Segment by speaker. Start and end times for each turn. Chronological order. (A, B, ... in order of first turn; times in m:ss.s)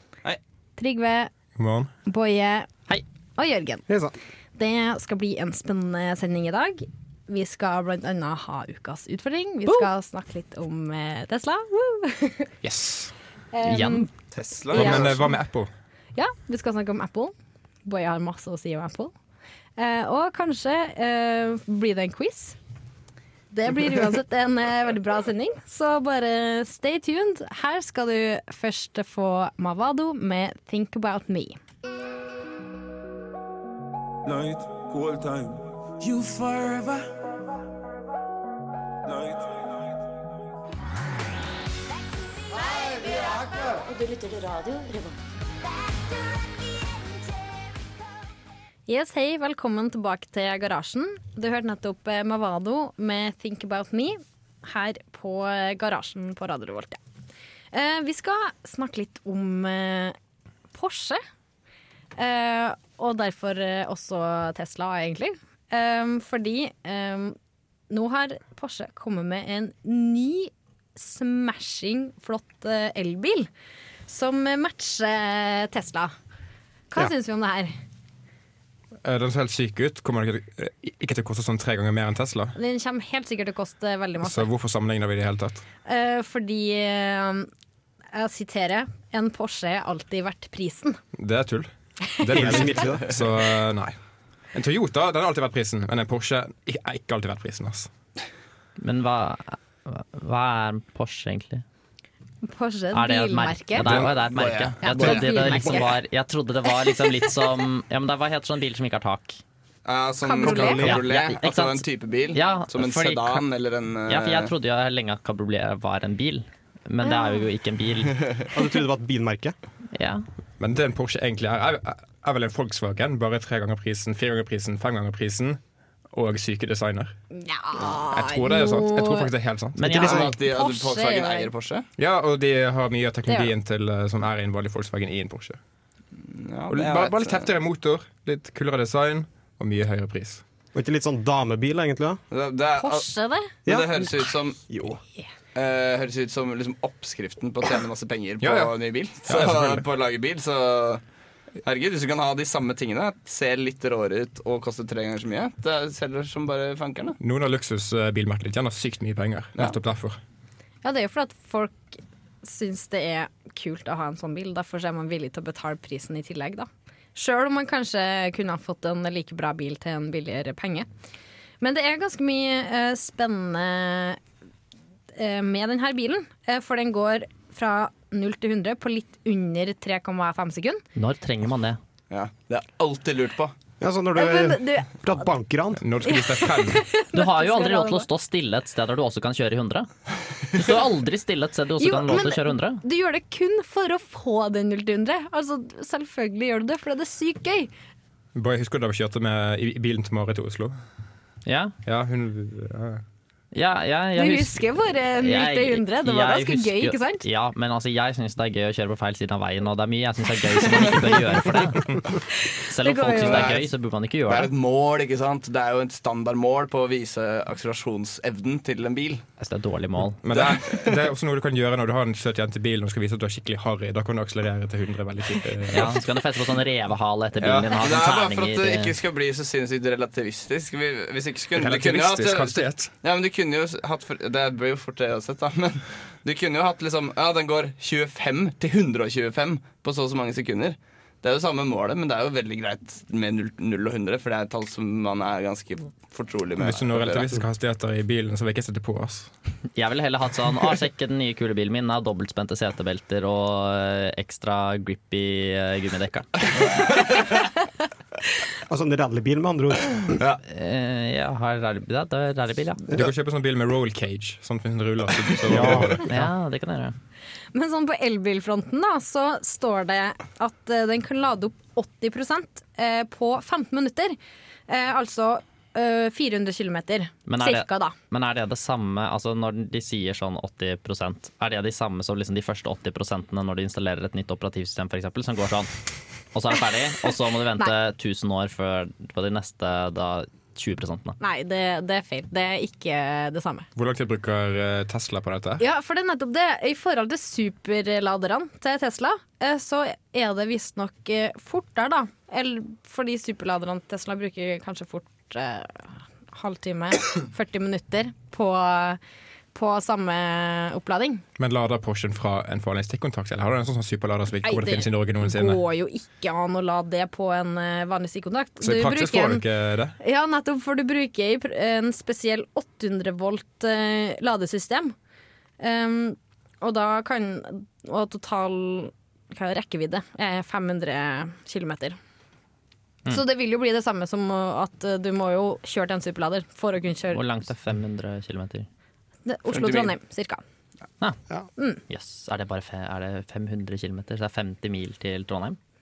0:00.8-0:01.3 A
0:01.6-0:01.9 B
0:02.0-0:02.7 A
0:03.4-0:03.8 A
0:03.9-0:04.1 C
0:04.6-0:12.5 A
0:12.6-0:13.1 B
0:13.5-0:14.1 A
0:13.6-0:14.1 D
0:14.3-0:15.2 E
0:14.7-0:15.3 A
0:14.7-0:15.7 B
0:16.1-0:17.3 A
0:17.8-0:19.1 A
0:19.8-0:22.6 A
0:23.5-0:31.6 A
0:34.2-0:37.1 F
0:39.0-0:39.7 F
0:42.6-0:45.2 G
0:48.9-0:57.0 A
0:57.7-1:00.1 A
1:00.7-1:01.2 A
1:02.2-1:07.4 A
1:07.9-1:13.5 A
1:14.1-1:16.1 A
1:16.9-1:17.7 A
1:19.0-1:22.6 B
1:22.6-1:24.5 A
1:24.2-1:25.6 B
1:25.8-1:27.5 A
1:28.1-1:31.0 A
1:31.2-1:34.0 B
1:32.3-1:33.1 C
1:34.5-1:37.9 B
1:38.8-1:41.6 D
1:42.4-1:44.1 A
1:42.9-1:49.4 D
1:43.8-1:44.1 B
1:44.3-1:45.2 E
1:44.8-1:45.9 A
1:49.8-1:54.5 E
1:50.2-1:51.0 A
1:50.6-1:53.4 D
1:54.1-1:58.2 D
1:57.0-1:57.4 A
1:58.5-1:59.5 C
1:59.9-2:00.2 D
2:00.6-2:05.6 B
2:06.1-2:07.1 B
2:07.4-2:09.3 A
2:07.8-2:10.2 B
2:09.8-2:10.2 D
2:09.8-2:10.3 C
2:10.0-2:11.9 E
2:10.3-2:11.5 A
2:12.0-2:15.6 B
2:16.2-2:17.5 E
2:16.7-2:20.4 B
2:20.7-2:22.2 C
2:22.3-2:23.1 E
2:22.8-2:23.5 A
2:23.6-2:25.0 C
2:23.7-2:24.6 E
2:25.5-2:31.0 E
2:28.4-2:28.7 B
2:29.2-2:29.8 B
2:31.6-2:37.2 E
2:37.2-2:40.2 B
2:40.8-2:50.9 A
2:51.6-2:54.2 A
2:55.2-3:00.8 A
3:01.0-3:01.8 D
3:02.1-3:03.5 E
3:03.8-3:05.8 C
3:04.1-3:05.3 A
3:05.8-3:06.8 B
3:06.0-3:08.1 A
3:07.1-3:09.9 D
3:10.5-3:12.8 D
3:11.8-3:17.7 A
3:18.3-3:20.7 B
3:21.4-3:21.7 D
3:21.8-3:23.0 B
3:23.5-3:31.9 D
3:24.2-3:27.2 A
3:32.7-3:34.5 D
3:32.8-3:33.6 A
3:33.2-3:33.6 E
3:34.2-3:39.2 E
3:39.4-3:40.2 D
3:40.2-3:46.0 B
3:40.3-3:41.0 E
3:45.7-3:48.9 D
3:47.4-3:47.7 B
3:47.7-4:07.3 E
3:51.5-3:52.9 B
4:06.6-4:09.3 B
4:09.7-4:16.4 D
4:18.7-4:20.2 C
4:20.5-4:22.8 D
4:22.9-4:26.1 B
4:25.5-4:26.9 D
4:25.6-4:25.9 C
4:27.5-4:34.2 A
4:34.7-4:37.9 A
4:37.3-4:45.7 D
4:46.3-4:51.2 D
4:51.2-4:53.7 A
4:53.8-4:55.6 B
4:55.6-5:09.0 A
5:09.5-5:11.2 A
5:11.4-5:15.6 B
5:14.4-5:19.4 A
5:18.6-5:20.0 B
5:20.0-5:24.9 A
5:25.6-5:32.0 A
5:33.1-5:37.2 A
5:37.1-5:38.7 D
5:39.2-5:40.4 A
5:39.5-5:39.9 E
5:41.9-5:45.6 D